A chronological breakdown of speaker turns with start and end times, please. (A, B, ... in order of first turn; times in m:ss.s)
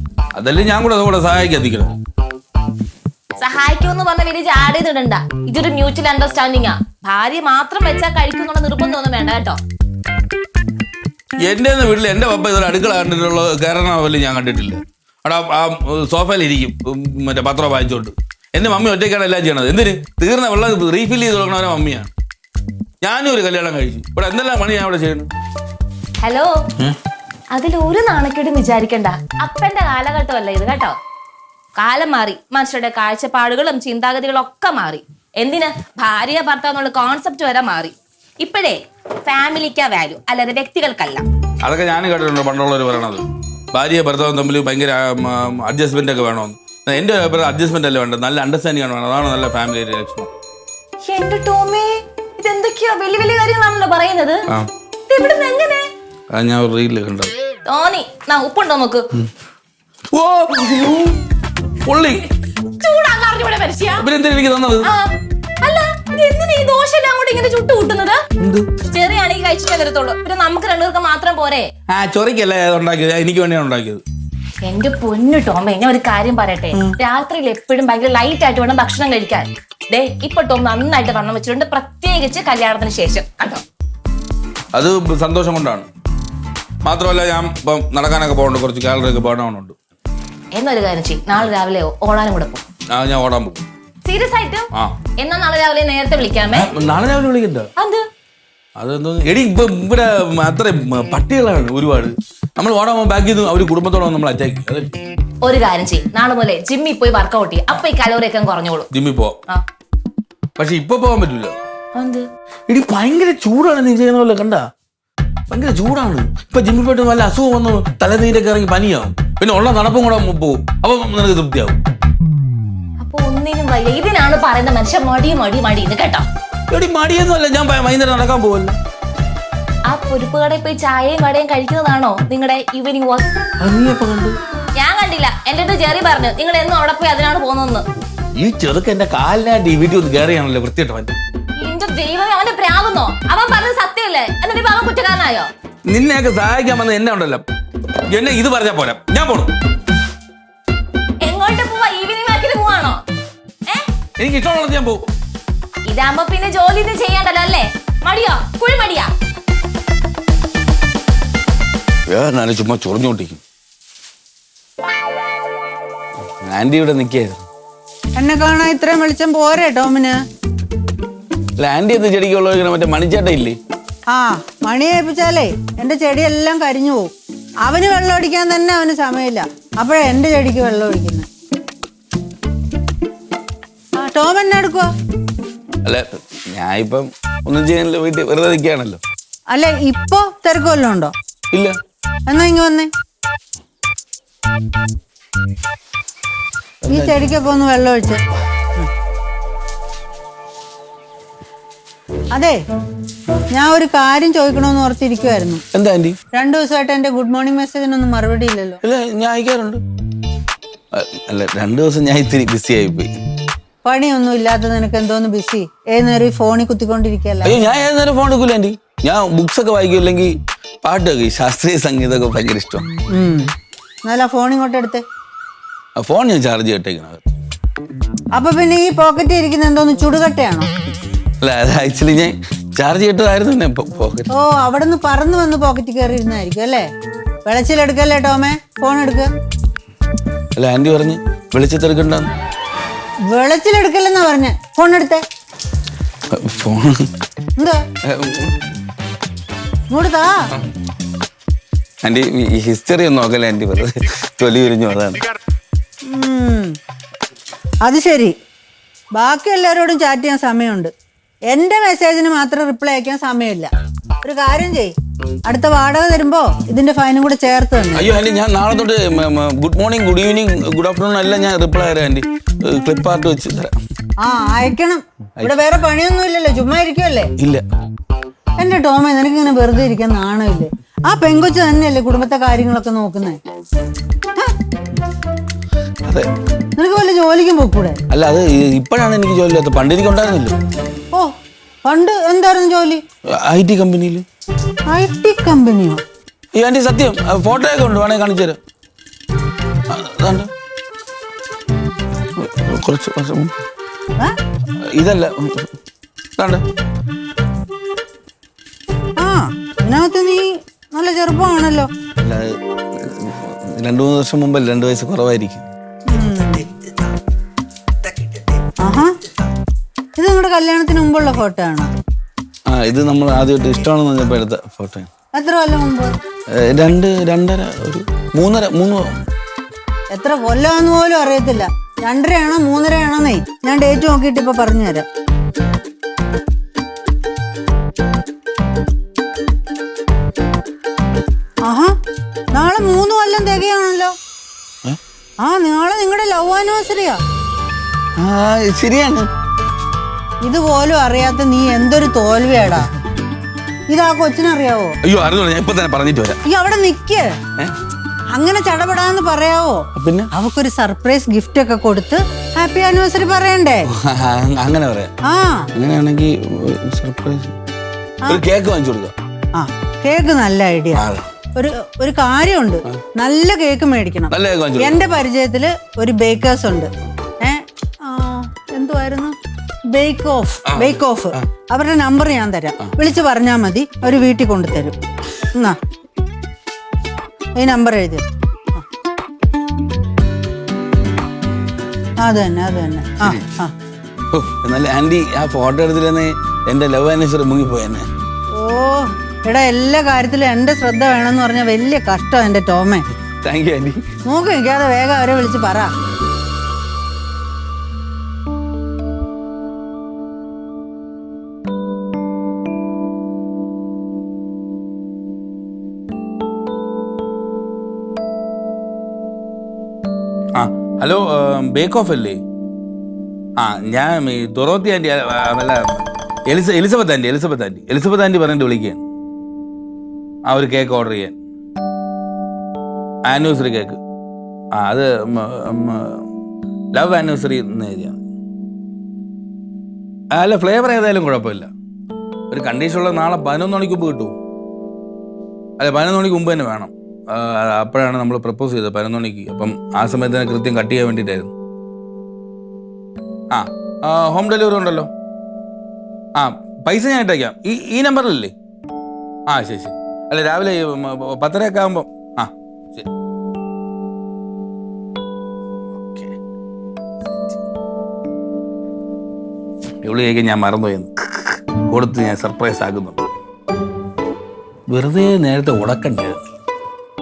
0:00.3-0:02.0 A
0:03.4-0:09.6 B
0:11.4-0:22.1 A
0:23.0-0:25.3 A
0:26.2-0:26.6 B
0:27.5-0:31.0 B
0:31.8-0:41.2 B
0:41.6-0:50.3 A
0:51.0-0:54.5 B
0:55.1-0:55.9 B
0:56.3-0:57.3 A
0:57.7-0:59.1 B
1:00.1-1:01.2 A
1:01.8-1:02.3 A
1:02.8-1:04.1 B
1:04.0-1:04.9 A
1:04.8-1:08.2 B
1:08.4-1:08.7 A
1:08.8-1:11.7 B
1:11.9-1:14.0 A
1:14.6-1:23.6 B
1:24.7-1:25.9 A
1:26.8-1:29.8 A
1:30.5-1:32.6 B
1:32.9-1:33.6 A
1:34.0-1:36.7 B
1:36.5-1:37.7 A
1:37.8-1:38.0 B
1:38.8-1:44.9 A
1:45.4-1:48.9 B
1:48.9-1:49.4 A
1:50.6-1:51.5 A
1:52.0-1:52.2 B
1:52.7-1:54.7 A
1:55.5-2:01.8 A
2:03.0-2:06.3 B
2:06.7-2:08.8 A
2:09.9-2:13.3 B
2:13.6-2:14.4 A
2:14.8-2:17.8 B
2:18.3-2:21.2 A
2:21.6-2:25.5 B
2:25.9-2:27.4 A
2:28.1-2:29.5 A
2:31.2-2:33.0 B
2:34.2-2:35.0 A
2:35.9-2:39.1 B
2:42.1-2:43.4 A
2:46.4-2:47.4 A
2:48.2-2:50.2 C
2:51.6-2:53.6 A
2:54.1-2:57.1 C
2:57.6-3:01.3 C
3:04.0-3:04.9 C
3:05.8-3:09.0 A
3:09.5-3:11.1 C
3:11.5-3:11.8 A
3:12.3-3:12.9 C
3:16.8-3:17.2 A
3:16.9-3:18.2 C
3:22.3-3:22.6 C
3:23.5-3:25.6 C
3:25.7-3:26.2 A
3:26.3-3:28.8 C
3:28.8-3:29.8 A
3:30.9-3:33.1 A
3:33.8-3:37.6 C
3:37.4-3:42.9 A
3:43.1-3:43.5 C
3:44.0-3:45.0 C
3:46.0-3:47.4 A
3:48.3-3:50.7 C
3:51.4-3:54.3 A
3:54.3-3:56.9 C
3:57.4-3:59.3 C
4:00.6-4:02.3 A
4:03.3-4:05.2 C
4:06.3-4:07.1 A
4:08.0-4:08.6 A
4:09.9-4:10.4 C
4:12.0-4:15.2 A
4:16.0-4:16.8 C
4:17.8-4:18.4 C
4:19.1-4:20.9 C
4:21.5-4:23.7 C
4:24.2-4:24.9 C
4:25.4-4:28.1 C
4:27.9-4:33.7 A
4:34.2-4:37.3 C
4:35.4-4:35.6 A
4:37.4-4:37.6 A
4:38.6-4:43.4 C
4:46.8-4:48.0 C
4:48.1-4:50.6 A
4:51.8-4:53.0 C
4:53.3-4:54.2 A
4:54.9-4:56.0 C
4:56.5-4:58.6 A
4:59.9-5:00.5 A
5:02.4-5:03.5 A
5:04.8-5:05.7 A
5:06.4-5:06.6 A
5:09.2-5:11.9 C
5:12.2-5:15.6 A
5:16.1-5:16.7 C
5:18.8-5:19.2 C
5:20.2-5:21.9 C
5:22.7-5:25.1 A
5:25.3-5:26.1 C
5:26.5-5:29.2 A
5:30.1-5:35.0 C
5:41.6-5:42.0 C
5:42.5-5:44.2 C
5:45.4-5:47.2 C
5:48.2-5:49.3 A
5:50.4-5:52.9 C
5:53.9-5:55.0 C
5:55.0-5:56.4 A
5:56.5-5:57.4 C
5:58.3-6:03.9 C
5:59.9-6:00.3 A
6:03.8-6:05.1 A
6:05.2-6:05.7 C
6:05.7-6:07.6 A
6:08.2-6:09.1 A
6:09.5-6:11.0 C
6:10.9-6:11.3 A
6:11.5-6:19.4 C
6:14.3-6:15.0 A
6:19.9-6:25.0 C
6:20.7-6:21.4 A
6:27.6-6:28.8 C
6:32.2-6:33.7 C
6:34.3-6:38.1 A
6:38.5-6:43.0 C
6:43.4-6:44.0 A
6:44.3-6:45.9 C
7:00.6-7:02.4 A
7:03.6-7:09.0 A
7:10.4-7:11.3 A
7:13.3-7:14.0 A
7:14.7-7:16.2 A
7:16.9-7:18.2 A
7:20.3-7:21.7 A
7:22.5-7:24.4 A
7:25.8-7:31.5 A
7:33.5-7:35.1 A
7:36.4-7:38.5 A
7:39.5-7:43.1 A
7:46.0-7:46.4 A
7:47.3-7:47.6 A
7:50.0-7:53.2 A
7:54.9-7:56.5 A